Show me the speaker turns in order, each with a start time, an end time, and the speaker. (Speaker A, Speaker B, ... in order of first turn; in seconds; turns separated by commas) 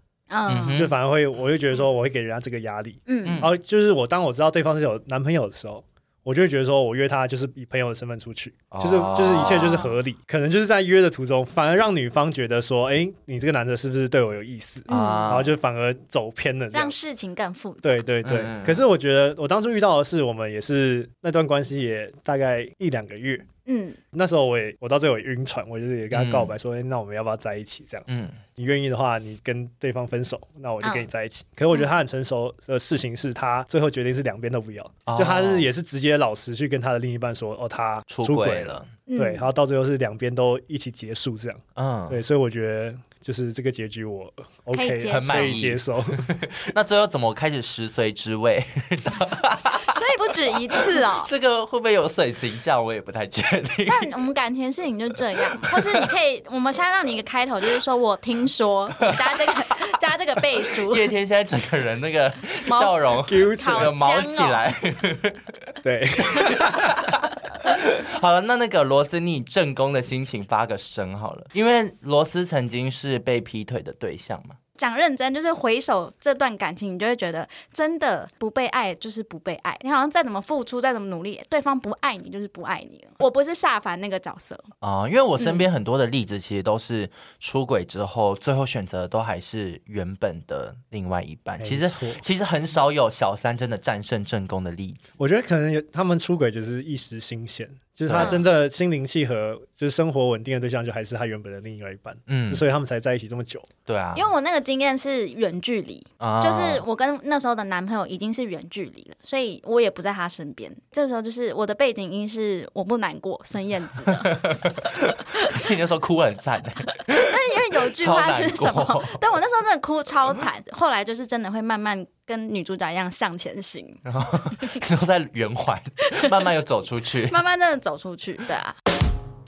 Speaker A: 0.3-0.8, Speaker B: 0.5-0.9, Speaker C: 0.7-16.9, Speaker A: 3.1-3.4, Speaker B: 3.2-3.5, Speaker B: 8.7-9.8, Speaker A: 9.3-9.9, Speaker A: 14.9-15.3, Speaker B: 14.9-15.5, Speaker A: 16.7-18.1, Speaker C: 17.8-23.5, Speaker B: 18.2-18.8, Speaker A: 23.6-24.0, Speaker C: 24.1-46.3, Speaker B: 26.1-26.5, Speaker B: 28.1-28.4, Speaker A: 30.8-31.1, Speaker B: 35.0-35.7, Speaker B: 38.1-38.9, Speaker A: 39.1-39.5, Speaker B: 41.8-42.2, Speaker A: 44.7-45.6, Speaker B: 45.1-50.0, Speaker A: 49.8-51.3, Speaker B: 50.7-54.1, Speaker A: 53.9-61.1, Speaker B: 55.4-56.1, Speaker B: 59.0-59.4, Speaker B: 60.7-74.6, Speaker A: 62.6-64.7, Speaker C: 63.2-63.9, Speaker C: 65.8-67.1, Speaker A: 74.8-84.7, Speaker B: 84.8-95.0, Speaker C: 91.6-92.2, Speaker C: 95.2-103.7, Speaker B: 98.1-98.4, Speaker A: 98.1-98.5, Speaker B: 102.3-102.6, Speaker B: 103.9-104.3, Speaker A: 104.1-114.4, Speaker B: 106.2-106.8, Speaker B: 114.0-119.2, Speaker A: 116.9-124.0, Speaker B: 124.0-127.4, Speaker A: 126.1-126.4, Speaker A: 127.3-128.8